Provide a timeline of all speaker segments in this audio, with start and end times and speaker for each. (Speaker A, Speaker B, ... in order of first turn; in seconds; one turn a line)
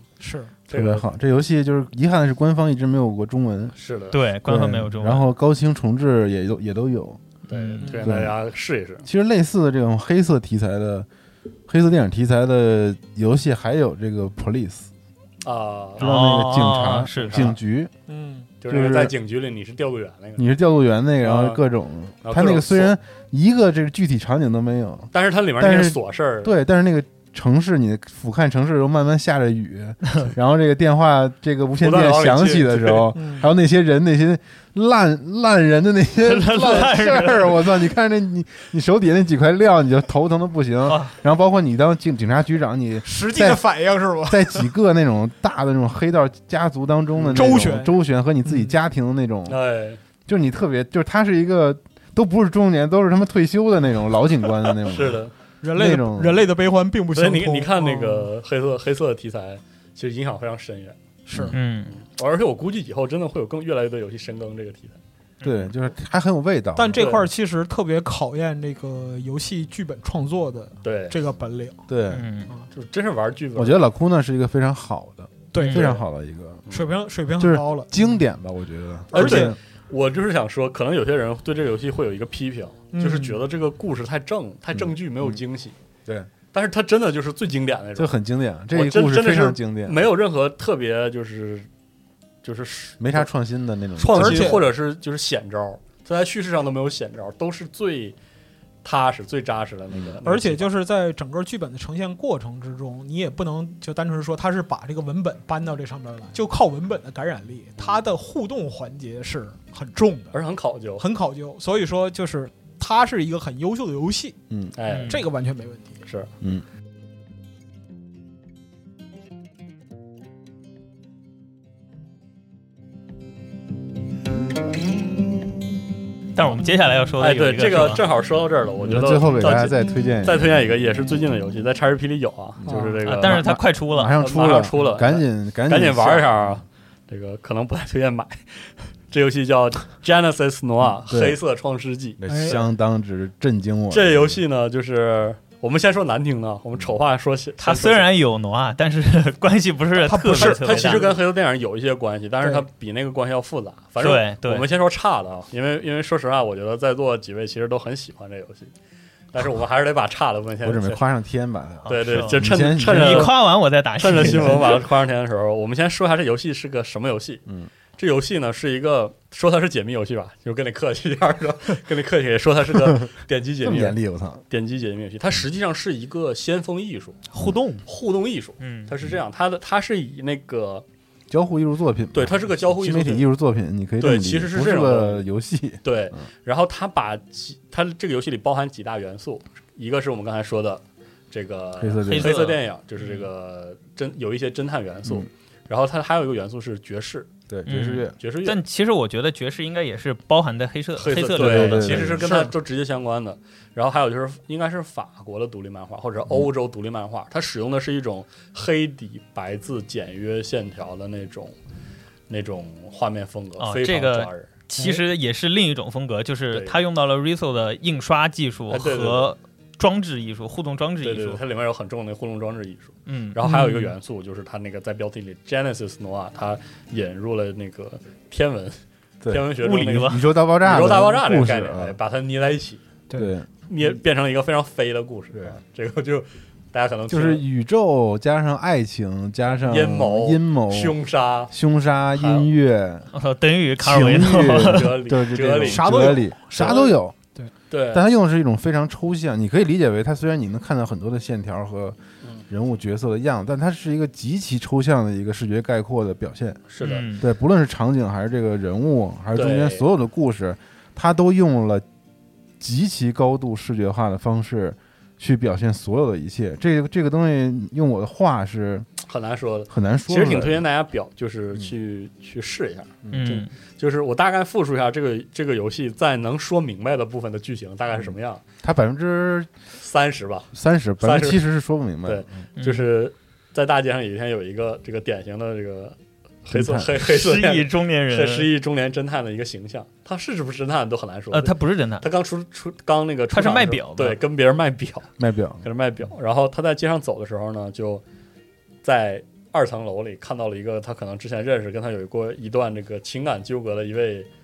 Speaker A: 0.2-0.5
Speaker B: 0.7-1.1
Speaker C: 0.7-3.7
Speaker B: 3.7-4.2
Speaker D: 4.1-5.3
Speaker C: 4.5-7.2
Speaker B: 7.5-9.1
Speaker D: 7.5-7.9
Speaker A: 7.8-8.1
Speaker C: 8.0-8.3
Speaker C: 9.1-11.1
Speaker C: 11.7-14.9
Speaker B: 15.4-16.1
Speaker C: 16.0-17.9
Speaker D: 16.0-17.5
Speaker B: 17.1-17.6
Speaker A: 18.1-18.5
Speaker B: 18.6-20.4
Speaker C: 18.7-19.1
Speaker C: 20.4-43.7
Speaker B: 21.2-21.6
Speaker B: 22.2-22.9
Speaker B: 25.1-26.5
Speaker B: 31.8-33.1
Speaker A: 33.1-33.5
Speaker D: 36.2-37.6
Speaker D: 40.9-41.1
Speaker A: 43.0-44.7
Speaker C: 44.3-49.6
Speaker B: 47.1-47.6
Speaker A: 47.3-48.7
Speaker B: 49.5-50.0
Speaker C: 50.3-55.2
Speaker B: 54.9-55.3
Speaker A: 55.6-58.3
Speaker C: 55.7-56.5
Speaker B: 57.1-61.0
Speaker A: 61.3-61.5
Speaker D: 61.5-61.9
Speaker B: 61.9-65.0
Speaker D: 65.4-65.7
Speaker C: 65.4-67.1
Speaker A: 66.8-71.8
Speaker B: 66.9-67.3
Speaker B: 70.8-71.2
Speaker C: 71.9-72.2
Speaker D: 72.1-72.5
Speaker B: 72.7-73.8
Speaker C: 73.5-76.6
Speaker A: 75.5-76.0
Speaker D: 75.5-75.9
Speaker B: 76.7-76.9
Speaker A: 76.7-78.0
Speaker C: 77.4-79.6
Speaker A: 79.1-79.5
Speaker B: 79.1-85.7
Speaker A: 82.9-83.4
Speaker C: 84.7-85.4
Speaker B: 86.5-88.1
Speaker C: 88.0-90.1
Speaker B: 88.7-91.7
Speaker B: 92.4-93.3
Speaker C: 93.0-94.6
Speaker B: 94.0-98.2
Speaker A: 94.1-94.7
Speaker B: 98.8-100.7
Speaker C: 99.9-100.2
Speaker A: 100.2-110.4
Speaker B: 110.3-111.0
Speaker A: 111.0-114.4
Speaker B: 114.8-115.2
Speaker D: 114.9-115.3
Speaker A: 115.1-116.0
Speaker D: 126.3-128.0
Speaker B: 127.2-133.5
Speaker C: 128.8-130.5
Speaker C: 132.6-136.4
Speaker A: 132.7-133.0
Speaker D: 133.1-134.1
Speaker B: 134.2-142.6
Speaker C: 141.1-141.4
Speaker C: 142.2-144.4
Speaker A: 142.3-142.6
Speaker B: 143.9-148.1
Speaker D: 147.6-151.1
Speaker A: 150.0-151.2
Speaker B: 150.3-158.7
Speaker D: 154.0-154.7
Speaker B: 159.3-161.0
Speaker C: 160.6-163.4
Speaker D: 161.8-164.8
Speaker B: 161.9-163.5
Speaker B: 164.0-167.4
Speaker C: 164.2-164.6
Speaker B: 168.0-174.0
Speaker C: 173.6-174.4
Speaker B: 174.5-177.2
Speaker A: 177.4-177.8
Speaker B: 177.9-180.8
Speaker D: 178.6-178.9
Speaker C: 181.3-185.8
Speaker B: 182.1-183.3
Speaker B: 184.0-185.2
Speaker B: 185.8-197.3
Speaker C: 191.8-192.3
Speaker D: 192.1-193.3
Speaker C: 197.5-198.1
Speaker D: 197.7-202.2
Speaker B: 198.2-198.6
Speaker B: 200.9-211.6
Speaker C: 201.4-202.3
Speaker A: 202.2-202.5
Speaker B: 212.3-214.5
Speaker D: 213.6-221.4
Speaker B: 216.5-216.8
Speaker B: 218.7-219.3
Speaker B: 221.0-232.8
Speaker D: 223.1-223.6
Speaker A: 223.4-223.9
Speaker C: 229.2-231.9
Speaker D: 229.6-230.2
Speaker A: 233.1-233.3
Speaker C: 233.1-233.5
Speaker B: 233.7-237.4
Speaker C: 237.1-241.0
Speaker B: 239.5-241.5
Speaker C: 241.5-243.1
Speaker B: 242.1-242.5
Speaker D: 243.1-245.0
Speaker C: 243.8-247.2
Speaker B: 244.6-246.9
Speaker A: 245.6-247.5
Speaker B: 247.7-248.0
Speaker C: 247.9-252.0
Speaker C: 252.5-256.6
Speaker B: 256.7-257.1
Speaker D: 256.8-257.2
Speaker C: 257.2-261.8
Speaker B: 259.3-259.9
Speaker C: 262.6-268.9
Speaker B: 269.0-278.4
Speaker C: 269.7-270.6
Speaker C: 273.0-273.3
Speaker D: 273.1-273.5
Speaker C: 278.6-279.5
Speaker B: 279.8-281.4
Speaker C: 280.5-282.4
Speaker B: 282.1-295.1
Speaker D: 282.6-282.9
Speaker C: 286.5-286.9
Speaker D: 286.9-288.5
Speaker D: 291.3-292.1
Speaker D: 293.3-294.2
Speaker C: 295.2-295.6
Speaker B: 295.6-298.0
Speaker B: 298.8-304.3